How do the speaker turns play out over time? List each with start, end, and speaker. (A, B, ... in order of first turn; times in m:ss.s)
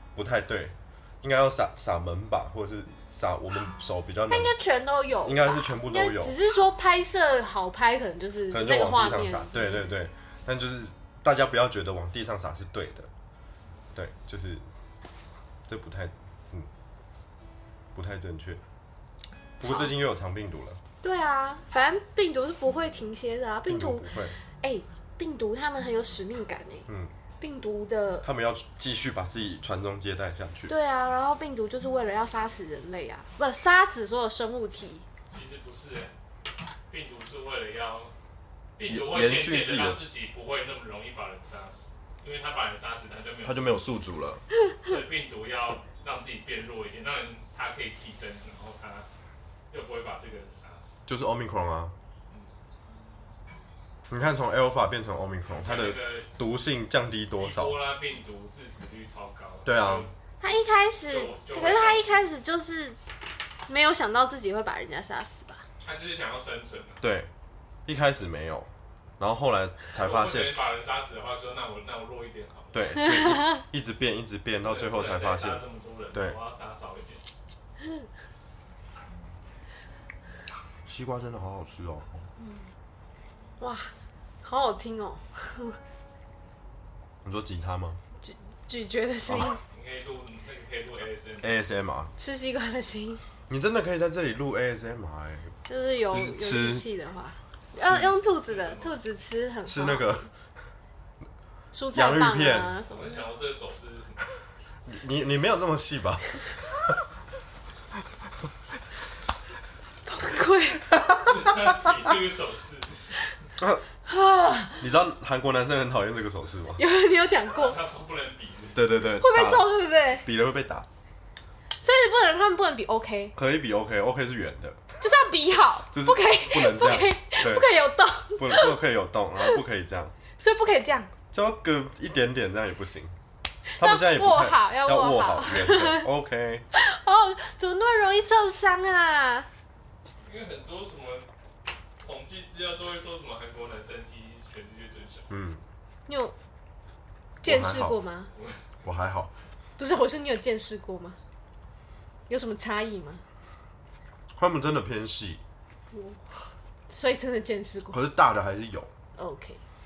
0:00.2-0:04.6 A
0:04.3-0:09.9 B
0:05.2-0:06.4 A
0:08.5-0:13.1 A
0:14.0-0:14.6 A
0:15.7-0:16.7 A
0:17.9-0:18.6 A
0:19.6-0:20.8 A
0:19.6-0:19.9 B
0:21.0-0:26.9 B
0:23.7-0:24.4 A
0:26.9-0:27.1 A
0:27.4-0:28.3 B
0:28.2-0:30.7 A
0:30.7-0:35.0 B
0:35.3-0:36.1 C
0:36.9-0:38.1 C
0:38.8-0:43.8 C
0:38.9-0:40.0 A
0:43.4-0:44.4 A
0:44.8-0:49.1 C
0:49.7-0:51.0 C
0:51.1-0:52.0 A
0:52.3-0:52.5 C
0:54.1-0:57.8 A
0:55.5-0:56.3 C
0:57.4-1:00.1 C
0:59.7-1:00.1 A
1:00.4-1:03.0 B
1:01.1-1:02.2 C
1:03.7-1:05.6 B
1:05.8-1:07.0 C
1:07.0-1:07.3 A
1:07.9-1:10.6 A
1:09.9-1:12.9 C
1:12.7-1:16.4 A
1:14.6-1:17.2 C
1:20.9-1:22.1 A
1:22.4-1:22.7 B
1:23.6-1:25.8 B
1:27.2-1:28.0 A
1:28.2-1:29.6 B
1:29.3-1:29.6 A
1:29.7-1:31.5 C
1:31.4-1:32.1 A
1:32.2-1:33.2 B
1:33.5-1:35.5 A
1:35.7-1:40.3 B
1:36.1-1:36.9 A
1:37.8-1:38.1 A
1:38.2-1:39.0 C
1:39.7-1:40.3 A
1:41.7-1:43.1 B
1:41.9-1:42.8 A
1:42.8-1:44.2 C
1:44.9-1:47.0 A
1:50.0-1:51.1 B
1:51.2-1:53.3 C
1:54.1-1:54.8 B
1:54.8-1:56.8 A
1:56.8-1:57.8 B
1:57.5-1:58.8 C
1:58.8-2:00.9 A
1:59.2-2:00.3 B
2:01.8-2:03.4 B
2:03.4-2:04.8 A
2:05.0-2:08.8 B
2:05.9-2:07.7 A
2:08.4-2:10.2 A
2:10.4-2:11.1 B
2:11.3-2:13.1 A
2:13.8-2:16.1 B
2:13.8-2:16.6 A
2:16.7-2:19.5 B
2:20.2-2:21.3 C
2:22.0-2:25.3 C
2:25.3-2:25.6 A
2:26.1-2:26.4 B
2:27.4-2:28.3 B
2:27.4-2:28.0 A
2:28.3-2:28.6 C
2:28.8-2:29.3 A
2:29.8-2:31.2 B
2:32.3-2:33.2 B
2:34.4-2:35.4 A
2:35.9-2:38.0 B
2:37.9-2:38.9 A
2:39.2-2:39.6 B